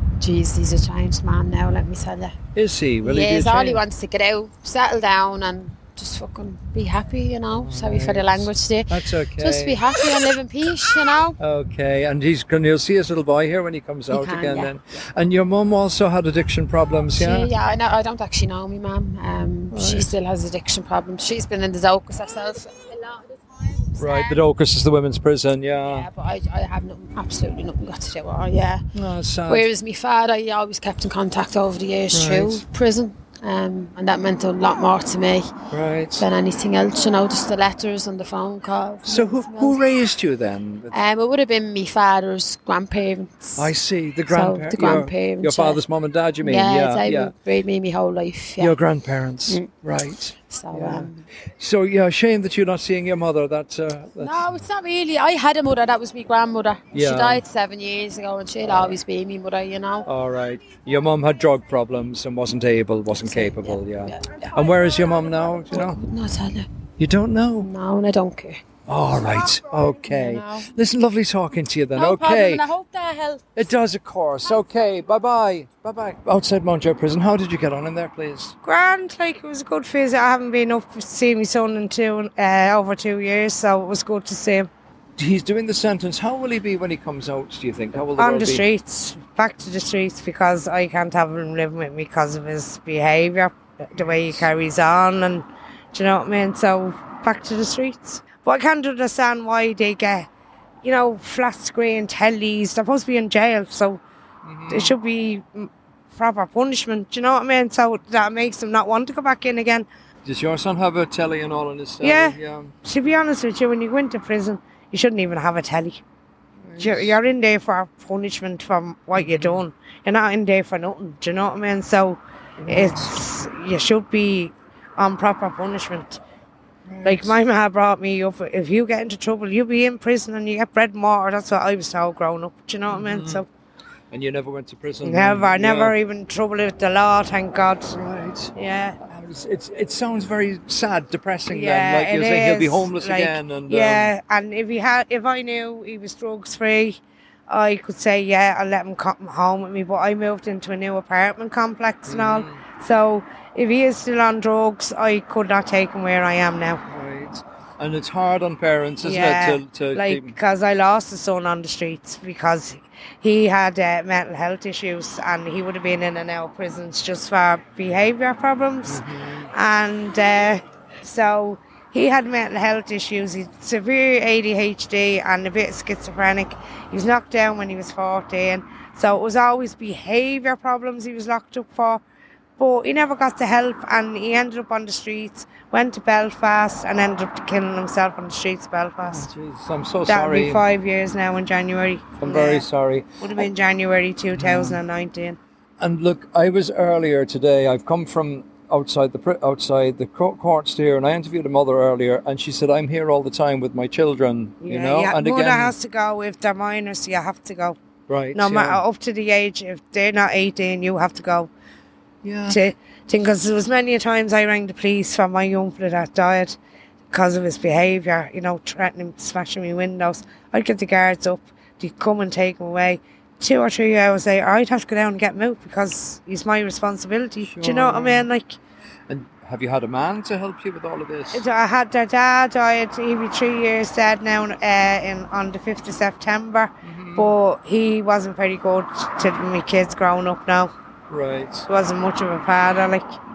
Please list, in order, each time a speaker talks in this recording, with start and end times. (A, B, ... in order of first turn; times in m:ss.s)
0:00.2-0:02.3 A
0:02.5-0:03.8 B
0:03.0-0:11.4 A
0:07.6-0:09.8 B
0:11.4-0:17.5 B
0:14.1-0:14.7 A
0:17.1-0:24.4 A
0:19.7-0:20.1 B
0:24.0-0:26.1 B
0:25.8-0:28.8 A
0:28.9-0:29.7 B
0:29.5-0:35.5 A
0:32.1-0:32.6 B
0:35.7-0:36.2 B
0:36.2-0:39.8 A
0:39.0-0:41.0 B
0:40.9-0:43.7 A
0:43.6-0:47.3 B
0:44.3-0:45.8 A
0:46.4-0:48.8 A
0:48.6-0:54.5 B
0:50.5-0:51.2 A
0:54.2-1:00.1 A
0:56.9-0:57.4 B
0:58.6-0:59.0 B
1:00.0-1:06.0 B
1:03.1-1:04.5 A
1:05.7-1:06.7 A
1:07.0-1:07.7 B
1:07.6-1:08.6 A
1:08.9-1:12.6 B
1:10.0-1:10.7 A
1:12.0-1:13.4 A
1:13.5-1:18.6 B
1:18.6-1:24.7 C
1:25.2-1:28.6 B
1:28.2-1:40.3 C
1:34.0-1:34.5 B
1:40.8-1:44.0 C
1:44.4-1:45.0 B
1:44.7-1:49.8 C
1:50.2-1:52.7 B
1:52.0-1:56.0 C
1:56.6-1:57.2 B
1:56.8-2:06.2 C
1:59.2-1:59.6 B
2:02.6-2:03.2 B
2:06.9-2:07.4 B
2:07.0-2:13.5 C
2:12.9-2:13.4 B
2:14.1-2:16.0 B
2:15.0-2:17.9 C
2:17.9-2:24.1 B
2:18.6-2:19.0 C
2:21.5-2:36.8 C
2:32.0-2:32.6 B
2:36.9-2:40.4 B
2:39.0-3:02.0 C
2:48.8-2:49.5 B
3:02.6-3:09.3 C
3:09.0-3:10.6 B
3:10.1-3:12.6 C
3:12.2-3:13.1 B
3:13.2-3:15.4 C
3:14.4-3:14.8 B
3:15.8-3:25.7 B
3:24.6-3:27.8 C
3:28.1-3:28.8 B
3:28.3-3:31.5 C
3:32.2-3:32.6 B
3:32.5-3:36.6 C
3:37.1-3:48.6 C
3:47.4-3:48.3 B
3:49.1-3:51.4 B
3:51.3-4:00.7 C
3:56.8-3:57.3 B
4:01.1-4:01.7 B
4:01.7-4:03.1 C